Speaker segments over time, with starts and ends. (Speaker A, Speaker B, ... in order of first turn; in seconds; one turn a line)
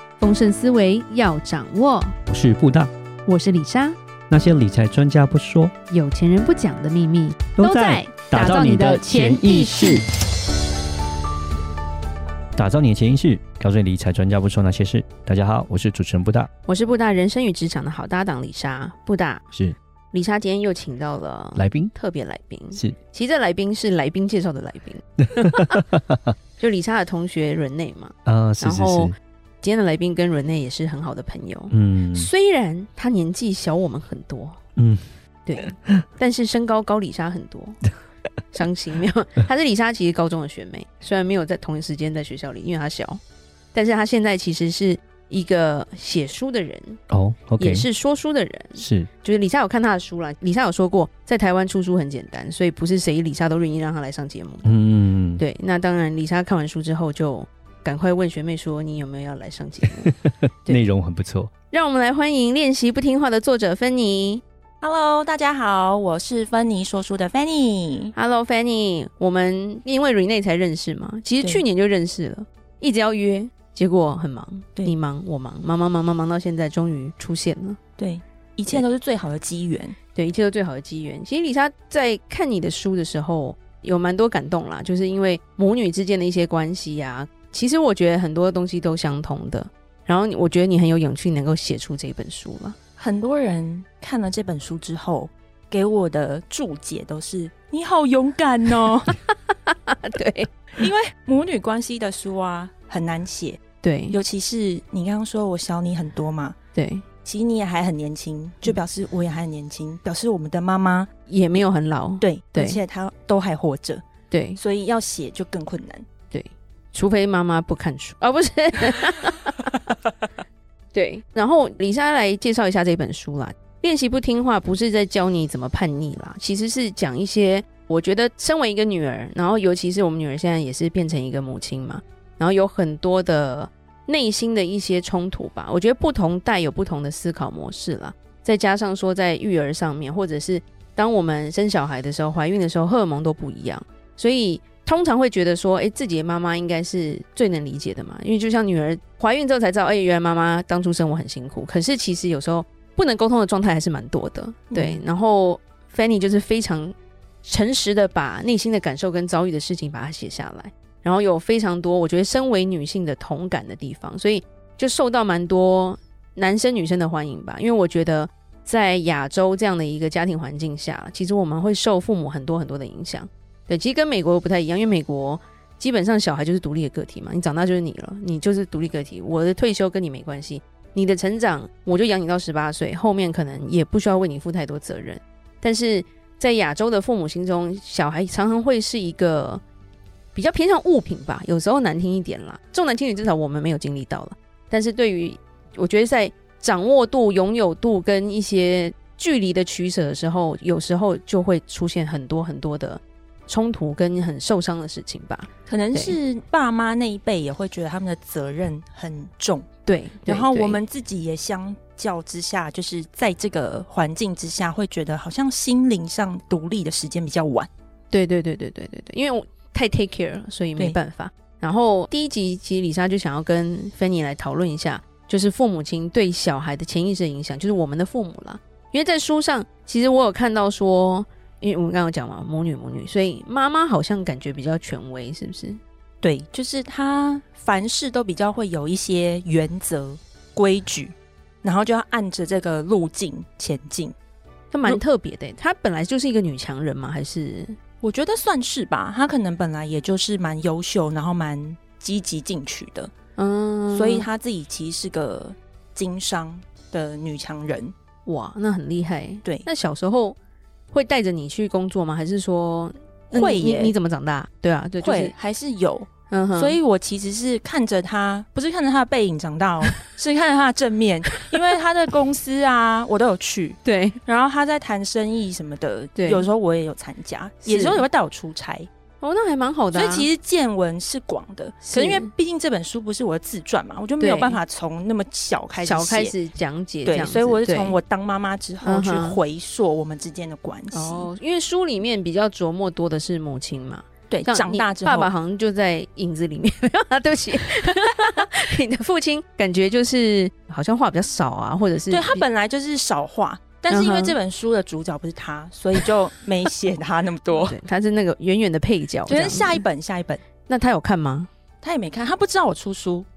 Speaker A: 0.2-2.2
Speaker B: 2.3-2.9
Speaker A: 3.2-4.0
Speaker B: 4.3-5.7
Speaker A: 5.9-10.1
Speaker B: 7.6-10.0
Speaker B: 12.6-16.5
Speaker A: 16.6-19.5
Speaker A: 20.1-25.8
Speaker B: 21.6-21.9
Speaker B: 25.4-26.3
Speaker A: 26.6-34.6
Speaker B: 28.2-29.1
Speaker B: 31.7-32.3
Speaker B: 34.8-35.0
Speaker A: 35.4-37.8
Speaker A: 38.5-43.2
Speaker A: 43.7-47.0
Speaker B: 47.1-47.9
Speaker A: 47.6-54.8
Speaker B: 48.8-49.1
Speaker B: 54.6-55.4
Speaker A: 55.4-60.1
Speaker B: 60.6-61.5
Speaker A: 61.7-64.4
Speaker C: 64.8-68.1
Speaker A: 68.1-77.8
Speaker C: 78.0-79.9
Speaker A: 80.1-92.8
Speaker C: 93.0-99.2
Speaker A: 99.7-100.6
Speaker C: 100.8-106.5
Speaker A: 103.8-104.2
Speaker A: 106.8-107.0
Speaker C: 107.2-111.1
Speaker A: 111.3-112.8
Speaker C: 112.2-114.0
Speaker A: 114.3-114.6
Speaker C: 114.6-116.0
Speaker A: 116.3-119.9
Speaker A: 120.9-189.6
Speaker C: 154.7-155.0
Speaker A: 190.3-206.2
Speaker C: 205.7-209.7
Speaker A: 209.8-210.8
Speaker C: 210.2-217.7
Speaker A: 218.1-235.8
Speaker C: 236.2-244.1
Speaker A: 244.7-247.8
Speaker C: 248.0-253.1
Speaker A: 253.3-254.3
Speaker C: 253.9-257.9
Speaker A: 258.2-260.4
Speaker A: 260.9-265.3
Speaker C: 263.3-263.9
Speaker C: 265.0-278.9
Speaker A: 266.3-266.8
Speaker A: 273.8-274.2
Speaker A: 276.1-276.5
Speaker A: 277.6-278.1
Speaker A: 279.2-280.3
Speaker C: 279.9-286.3
Speaker A: 281.8-282.3
Speaker A: 284.2-284.6
Speaker A: 285.8-288.0
Speaker C: 287.1-291.3
Speaker A: 288.8-289.4
Speaker A: 290.9-302.4
Speaker C: 294.3-295.3
Speaker C: 302.1-307.8
Speaker A: 303.9-304.4
Speaker A: 307.5-309.8
Speaker C: 309.3-310.4
Speaker A: 310.7-311.5
Speaker C: 311.8-313.3